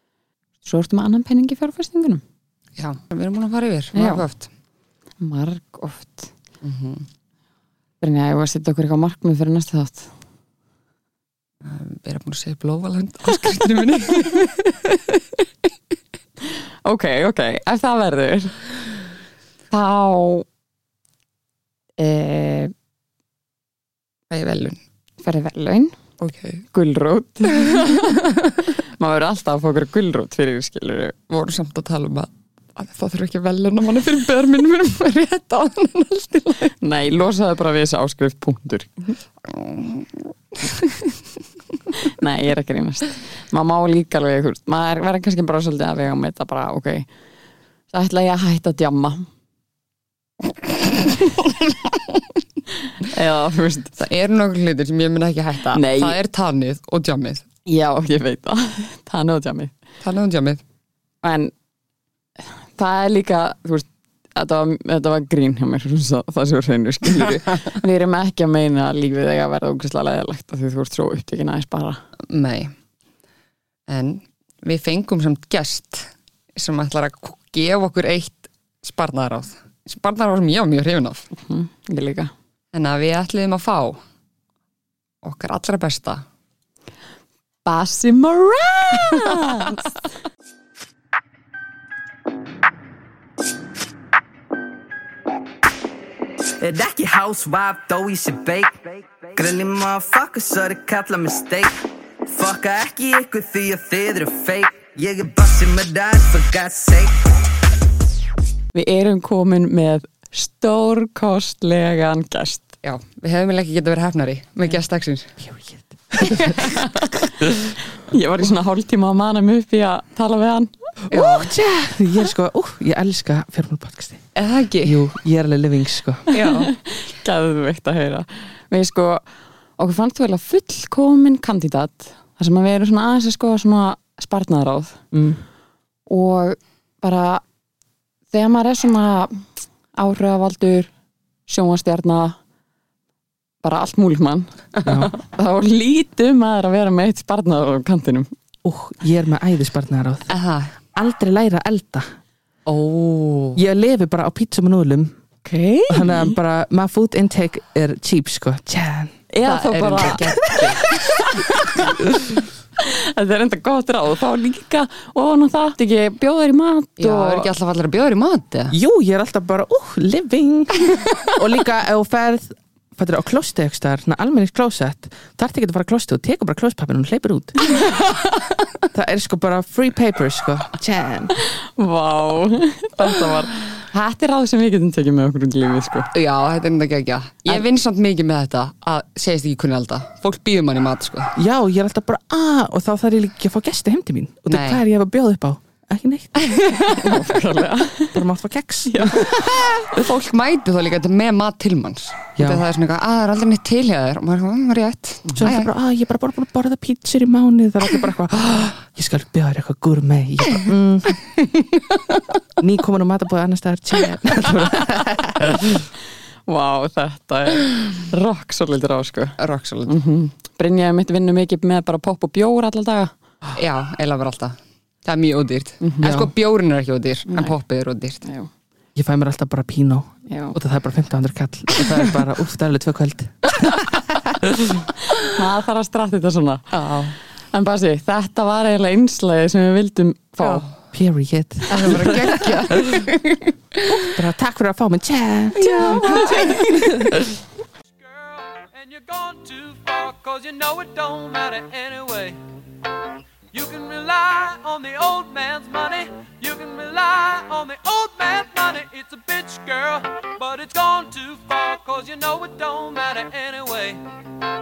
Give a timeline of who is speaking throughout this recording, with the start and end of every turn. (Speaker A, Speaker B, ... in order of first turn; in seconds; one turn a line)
Speaker A: 0.6-2.2
Speaker B: 2.8-4.5
Speaker A: 3.9-4.2
Speaker A: 5.2-6.3
Speaker B: 6.6-7.1
Speaker A: 8.0-10.1
Speaker B: 11.6-15.4
Speaker A: 16.9-18.6
Speaker A: 19.7-20.5
Speaker A: 22.0-22.7
Speaker B: 24.3-24.8
Speaker A: 25.2-25.9
Speaker B: 26.2-26.6
Speaker A: 26.7-28.2
Speaker B: 27.6-28.5
Speaker A: 29.0-31.2
Speaker B: 31.3-36.8
Speaker A: 36.8-39.2
Speaker B: 39.5-41.2
Speaker A: 42.0-47.1
Speaker A: 47.9-49.3
Speaker A: 53.0-54.0
Speaker B: 54.0-57.5
Speaker A: 55.7-56.2
Speaker A: 57.7-59.7
Speaker B: 60.0-60.6
Speaker A: 61.2-61.5
Speaker A: 62.4-72.0
Speaker B: 67.1-67.7
Speaker B: 72.3-72.7
Speaker B: 73.9-81.3
Speaker A: 81.4-82.3
Speaker B: 82.7-84.0
Speaker B: 85.2-86.2
Speaker A: 87.7-89.9
Speaker C: 96.6-107.2
Speaker A: 108.7-112.7
Speaker B: 112.8-115.4
Speaker D: 115.5-116.6
Speaker A: 116.2-117.0
Speaker B: 116.2-117.0
Speaker A: 118.0-120.9
Speaker D: 121.1-124.3
Speaker B: 121.1-121.5
Speaker B: 124.3-125.2
Speaker D: 124.8-126.3
Speaker B: 126.3-126.7
Speaker A: 126.4-129.2
Speaker A: 129.8-135.1
Speaker D: 135.1-135.4
Speaker A: 136.1-137.4
Speaker A: 138.3-140.9
Speaker A: 141.5-142.4
Speaker A: 143.6-148.3
Speaker D: 144.8-145.1
Speaker D: 148.6-150.3
Speaker B: 150.3-150.8
Speaker D: 150.9-152.2
Speaker B: 152.7-153.6
Speaker D: 153.6-155.2
Speaker A: 155.4-156.3
Speaker D: 155.9-159.2
Speaker A: 159.3-161.8
Speaker B: 159.4-161.5
Speaker A: 162.8-167.5
Speaker B: 167.0-168.7
Speaker D: 168.7-177.9
Speaker D: 178.9-181.3
Speaker A: 181.4-186.1
Speaker B: 186.1-191.4
Speaker D: 191.4-196.9
Speaker B: 194.5-194.8
Speaker A: 196.9-198.2
Speaker D: 198.1-199.7
Speaker A: 198.9-199.6
Speaker B: 199.3-205.7
Speaker D: 202.4-202.6
Speaker D: 205.3-211.4
Speaker B: 211.6-212.1
Speaker D: 212.6-215.7
Speaker A: 216.5-223.1
Speaker B: 219.4-220.0
Speaker B: 223.5-228.2
Speaker A: 225.8-226.1
Speaker D: 226.0-226.3
Speaker A: 227.3-227.5
Speaker A: 228.2-228.5
Speaker D: 229.0-233.8
Speaker A: 230.3-230.6
Speaker A: 235.2-236.8
Speaker B: 236.7-237.2
Speaker A: 237.5-240.7
Speaker B: 240.4-240.7
Speaker D: 240.9-242.4
Speaker B: 241.7-243.9
Speaker A: 241.8-242.3
Speaker D: 243.9-246.2
Speaker A: 245.6-246.9
Speaker B: 245.6-247.1
Speaker E: 247.9-252.4
Speaker E: 253.5-264.0